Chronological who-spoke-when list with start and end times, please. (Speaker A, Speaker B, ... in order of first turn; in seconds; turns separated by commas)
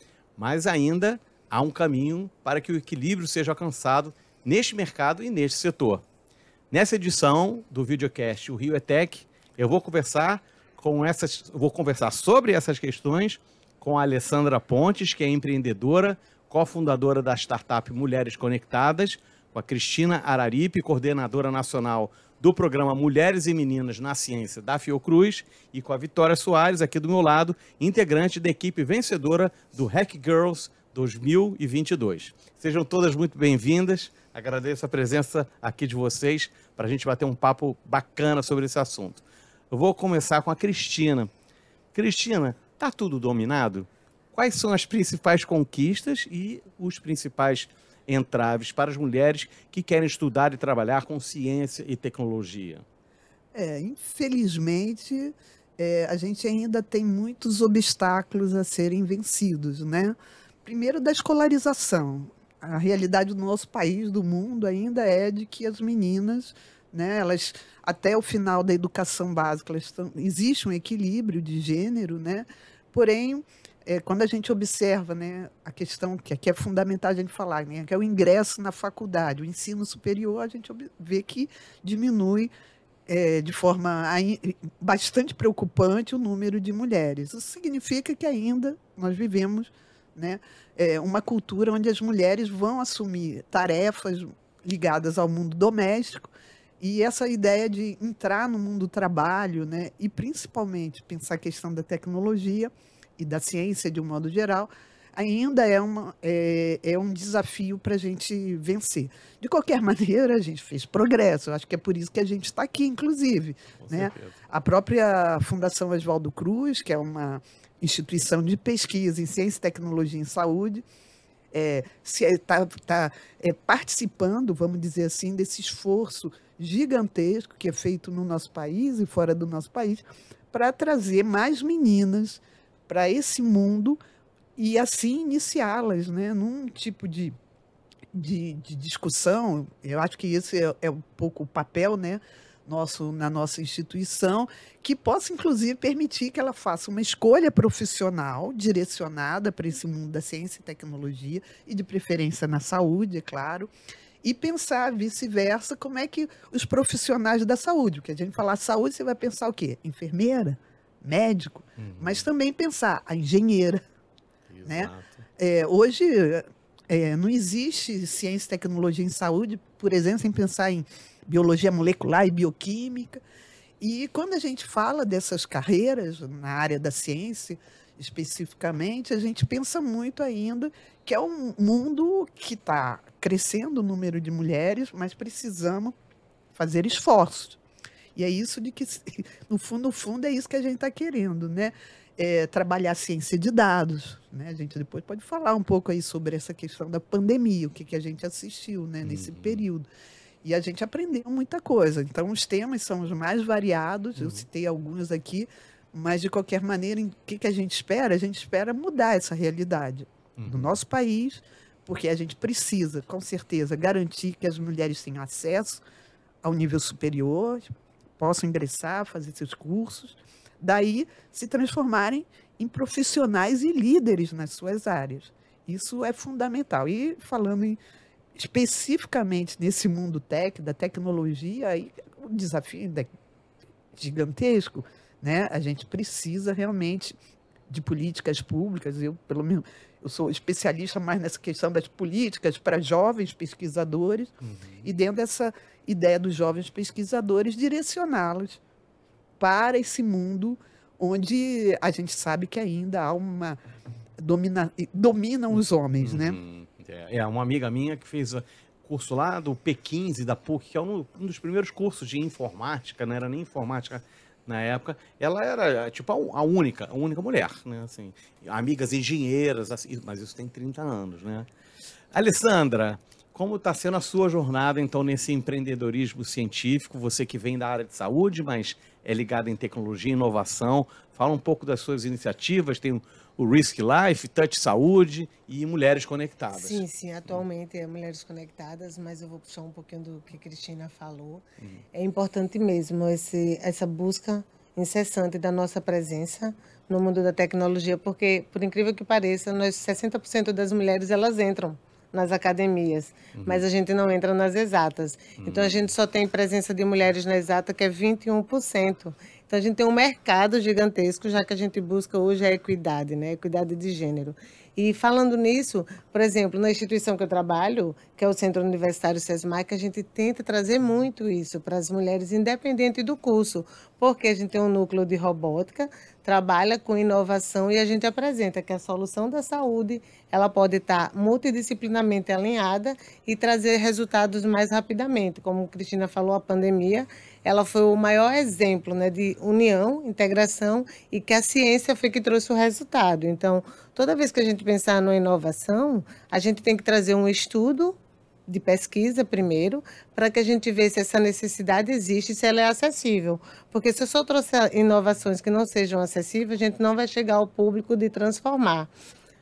Speaker A: 0.4-6.0, Speaker A: 6.7-41.3, Speaker A: 41.9-52.8, Speaker B: 53.5-82.5, Speaker B: 83.1-120.8, Speaker A: 113.8-114.4, Speaker B: 121.5-134.0, Speaker B: 134.6-137.3, Speaker B: 138.1-153.7, Speaker B: 154.2-163.8, Speaker A: 161.8-162.3, Speaker A: 164.5-165.2, Speaker B: 164.6-173.2, Speaker B: 173.8-185.9, Speaker B: 186.5-187.6, Speaker B: 188.1-199.8, Speaker A: 199.0-199.6, Speaker B: 200.4-215.8, Speaker A: 204.2-204.4, Speaker A: 210.4-210.8, Speaker B: 216.4-227.8, Speaker B: 228.3-233.1, Speaker B: 233.9-237.2, Speaker B: 237.7-244.3, Speaker A: 244.4-244.8, Speaker B: 244.8-248.6, Speaker B: 249.4-253.6, Speaker B: 254.2-256.4, Speaker A: 256.0-271.5, Speaker A: 272.1-287.4, Speaker C: 286.5-358.9, Speaker A: 303.4-303.6, Speaker A: 305.4-305.9